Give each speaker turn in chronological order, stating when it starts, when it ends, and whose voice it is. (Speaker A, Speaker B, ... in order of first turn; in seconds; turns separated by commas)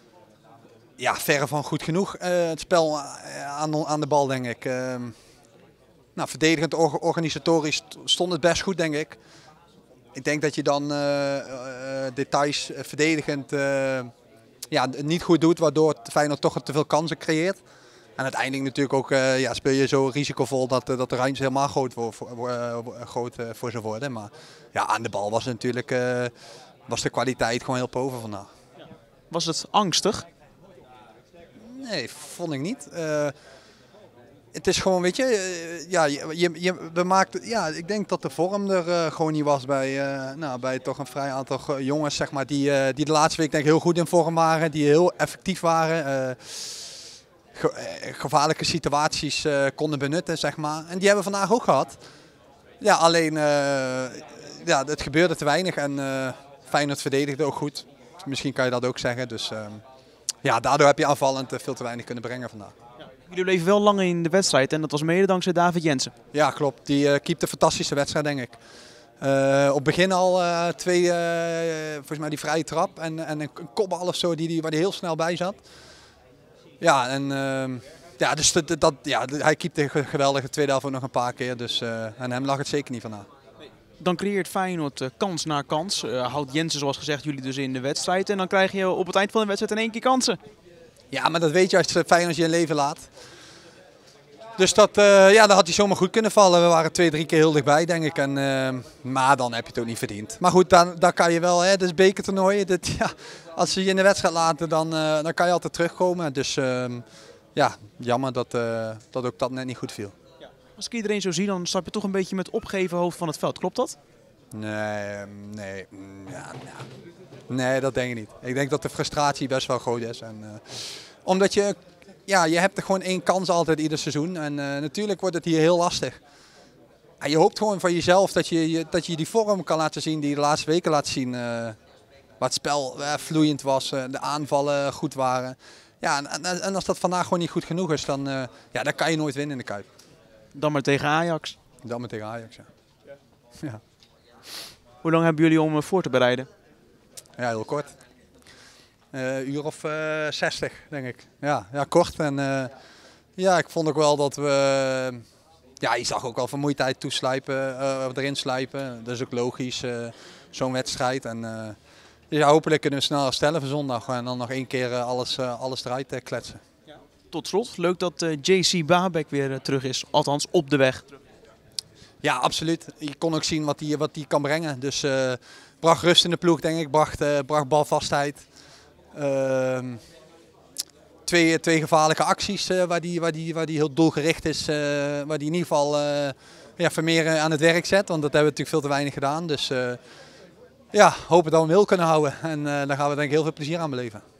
Speaker A: 1.0-5.1, Speaker A: 6.2-9.2, Speaker A: 10.1-14.1, Speaker A: 14.7-17.6, Speaker A: 18.2-26.3, Speaker A: 26.9-28.5, Speaker B: 29.3-30.2, Speaker A: 31.6-33.3, Speaker A: 34.5-47.0, Speaker A: 47.5-52.0, Speaker A: 52.8-59.8, Speaker A: 60.4-62.7, Speaker B: 63.3-66.1, Speaker A: 66.3-68.5, Speaker A: 69.2-75.6, Speaker A: 76.8-83.3, Speaker B: 84.0-90.4, Speaker A: 91.1-93.1, Speaker A: 94.6-110.1, Speaker B: 110.8-114.0, Speaker A: 114.5-116.9, Speaker A: 117.5-126.2, Speaker A: 127.2-131.8, Speaker A: 132.4-139.8, Speaker B: 140.5-141.6, Speaker A: 141.8-142.7, Speaker B: 145.0-146.5, Speaker A: 147.4-147.9, Speaker A: 149.1-152.7, Speaker A: 153.4-155.2, Speaker A: 155.8-161.8, Speaker A: 162.3-166.6, Speaker B: 167.3-171.0, Speaker A: 172.2-178.4, Speaker A: 179.1-180.0, Speaker A: 181.2-190.0, Speaker A: 190.9-194.2